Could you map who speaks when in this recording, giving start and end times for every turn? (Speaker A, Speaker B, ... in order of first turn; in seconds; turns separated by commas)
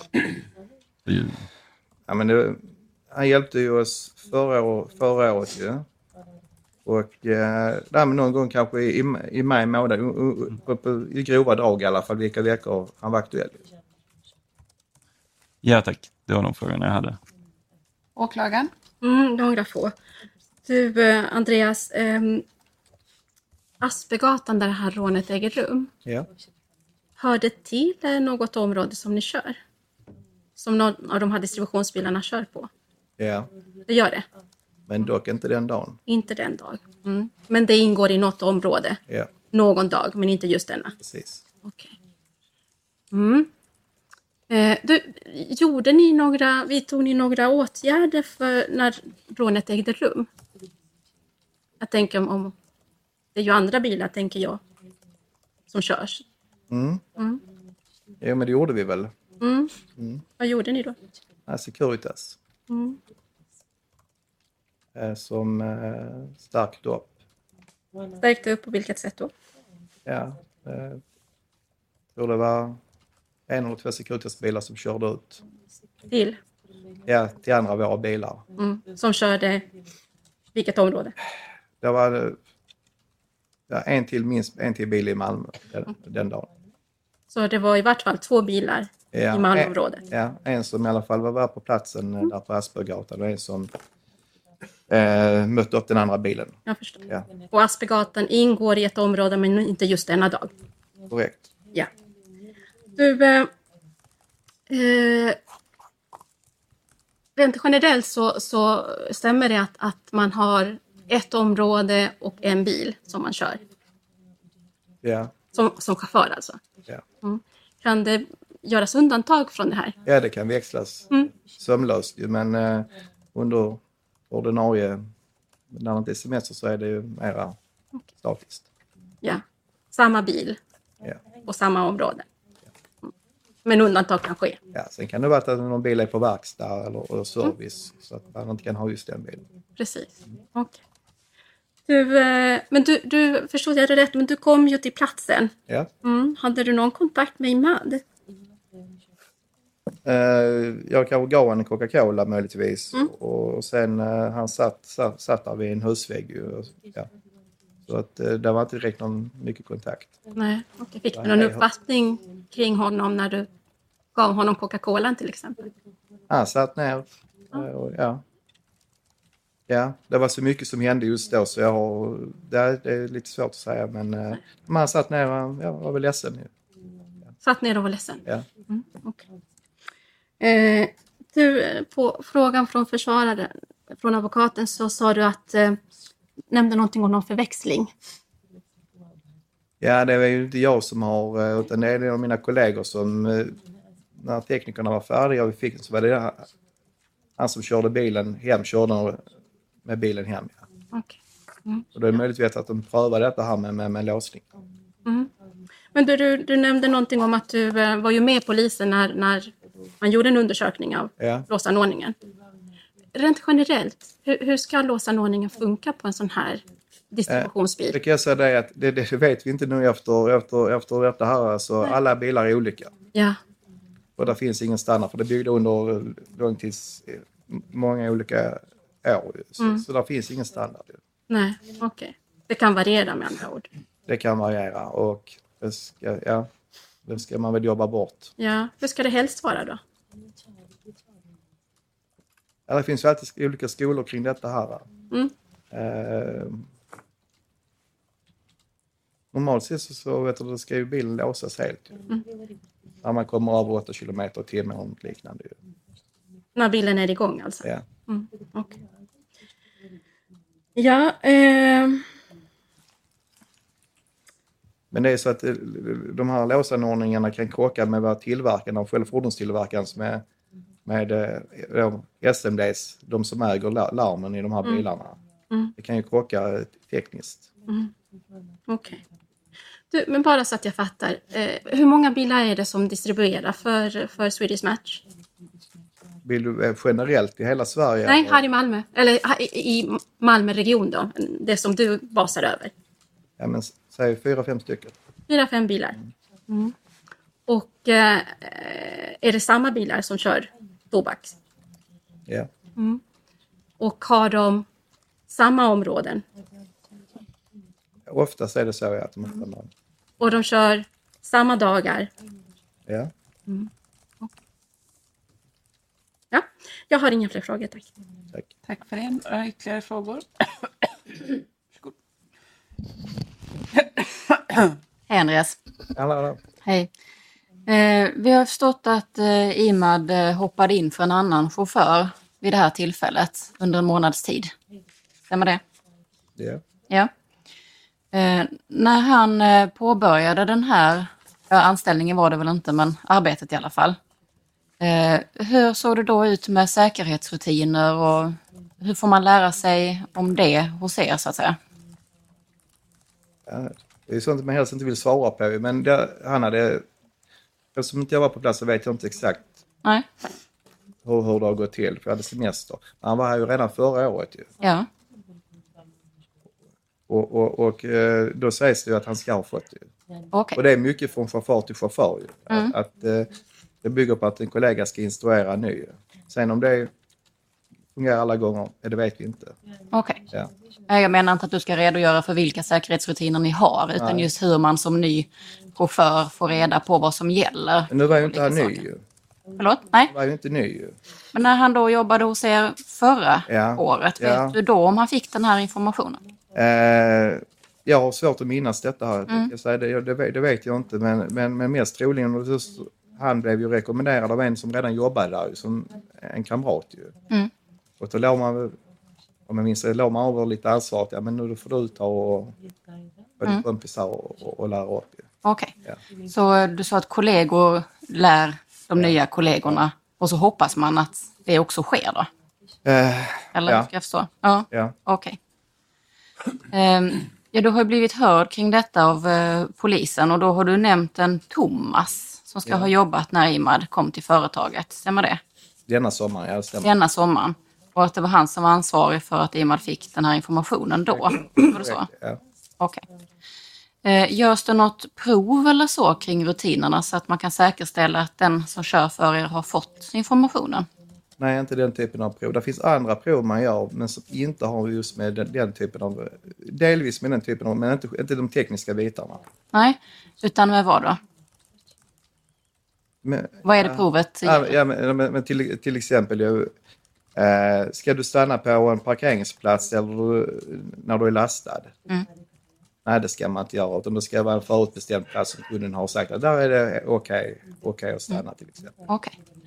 Speaker A: 1.1-1.4, Speaker B: 2.1-5.9, Speaker B: 6.9-13.6, Speaker A: 15.6-17.2, Speaker C: 18.2-18.7, Speaker D: 19.0-19.9, Speaker D: 20.7-22.4, Speaker D: 23.8-25.9, Speaker D: 27.2-29.6, Speaker D: 30.6-32.7, Speaker B: 33.2-33.5, Speaker D: 33.9-34.2, Speaker B: 34.9-36.0, Speaker D: 36.1-39.0, Speaker D: 39.5-40.9, Speaker B: 41.0-41.4, Speaker D: 41.6-41.9, Speaker D: 43.1-43.5, Speaker D: 44.5-50.3, Speaker D: 51.8-52.5, Speaker D: 53.4-54.6, Speaker D: 55.7-56.2, Speaker B: 56.7-57.0, Speaker D: 57.2-57.4, Speaker B: 58.2-59.1, Speaker D: 59.4-59.7, Speaker B: 60.0-60.2, Speaker D: 60.4-61.0, Speaker B: 61.5-62.4, Speaker D: 62.7-63.0, Speaker B: 65.0-67.2, Speaker D: 68.2-69.3, Speaker B: 70.1-71.0, Speaker B: 72.2-72.8, Speaker B: 73.5-75.4, Speaker D: 76.1-76.4, Speaker B: 77.1-78.4, Speaker D: 78.6-79.7, Speaker D: 80.5-81.1, Speaker B: 81.8-82.4, Speaker B: 83.7-86.5, Speaker D: 87.3-90.0, Speaker B: 89.1-93.7, Speaker B: 94.9-96.6, Speaker D: 96.7-100.5, Speaker B: 101.1-101.4, Speaker D: 103.0-103.5, Speaker D: 104.7-105.4, Speaker D: 107.4-113.6, Speaker B: 115.0-115.3, Speaker D: 115.5-116.6, Speaker D: 117.2-120.0, Speaker B: 120.0-125.0, Speaker B: 125.7-127.6, Speaker B: 128.2-128.7, Speaker D: 129.2-130.6, Speaker D: 131.4-132.3, Speaker D: 133.7-134.6, Speaker B: 134.7-139.4, Speaker D: 139.8-140.8, Speaker D: 141.9-148.0, Speaker B: 150.1-157.1, Speaker B: 157.9-160.1, Speaker D: 160.4-163.5, Speaker B: 161.1-161.6, Speaker D: 164.2-165.7, Speaker B: 166.3-168.2, Speaker B: 169.7-176.5, Speaker D: 177.4-179.2, Speaker D: 180.4-185.8, Speaker D: 186.5-187.9, Speaker B: 189.8-193.6, Speaker B: 194.2-196.5, Speaker B: 197.4-199.3, Speaker B: 199.8-200.6, Speaker D: 200.9-201.9, Speaker B: 201.9-204.5, Speaker D: 205.1-205.3, Speaker D: 205.9-212.2, Speaker B: 211.2-211.5, Speaker D: 213.2-218.0, Speaker B: 217.3-222.9, Speaker D: 223.1-223.4, Speaker B: 224.2-231.0, Speaker D: 229.6-229.8, Speaker D: 231.3-233.7, Speaker B: 234.1-236.5, Speaker B: 237.1-238.3, Speaker D: 238.4-239.8, Speaker B: 242.7-244.9, Speaker B: 245.7-246.7, Speaker B: 249.3-252.0, Speaker B: 253.0-255.6, Speaker D: 256.6-258.8, Speaker D: 260.8-262.1, Speaker B: 264.9-270.2, Speaker B: 270.9-275.2, Speaker B: 275.8-277.4, Speaker D: 278.7-279.0, Speaker D: 279.9-285.0, Speaker B: 286.2-288.4, Speaker D: 288.1-292.7, Speaker B: 293.4-294.9, Speaker D: 295.3-296.7, Speaker D: 297.5-301.4, Speaker D: 302.8-303.0, Speaker D: 303.8-304.7, Speaker D: 305.3-306.2, Speaker B: 308.1-309.7, Speaker D: 310.2-312.1, Speaker B: 312.9-313.1, Speaker D: 316.3-317.9, Speaker C: 318.7-321.2, Speaker E: 325.1-325.6, Speaker B: 325.9-326.4, Speaker E: 327.7-334.5, Speaker E: 335.3-335.6, Speaker B: 336.4-336.6, Speaker E: 338.1-344.0, Speaker E: 344.8-351.6, Speaker B: 353.5-356.9, Speaker B: 357.8-359.5, Speaker E: 359.8-360.1, Speaker B: 361.0-364.5, Speaker E: 364.6-364.9, Speaker B: 367.1-369.9, Speaker E: 370.3-370.6, Speaker B: 370.6-376.9, Speaker E: 372.5-372.8, Speaker B: 377.9-379.6, Speaker E: 379.9-380.2, Speaker E: 380.9-388.8, Speaker B: 384.0-384.3, Speaker B: 387.9-389.0, Speaker E: 389.6-390.1, Speaker B: 390.1-391.0, Speaker E: 391.3-396.2, Speaker B: 393.5-394.6, Speaker B: 396.5-407.1, Speaker B: 408.0-408.8, Speaker B: 409.5-412.6, Speaker B: 413.4-415.3, Speaker E: 415.4-415.7, Speaker E: 416.3-422.3, Speaker B: 419.0-419.8, Speaker B: 422.9-423.9, Speaker E: 423.5-425.4, Speaker E: 426.7-435.4, Speaker B: 435.9-436.9, Speaker E: 436.8-442.1, Speaker B: 441.1-442.4, Speaker E: 444.0-450.9, Speaker B: 451.4-459.4, Speaker E: 459.7-461.2, Speaker B: 463.2-466.7, Speaker E: 463.6-464.7, Speaker B: 467.4-471.9, Speaker B: 473.1-478.9, Speaker E: 479.1-479.3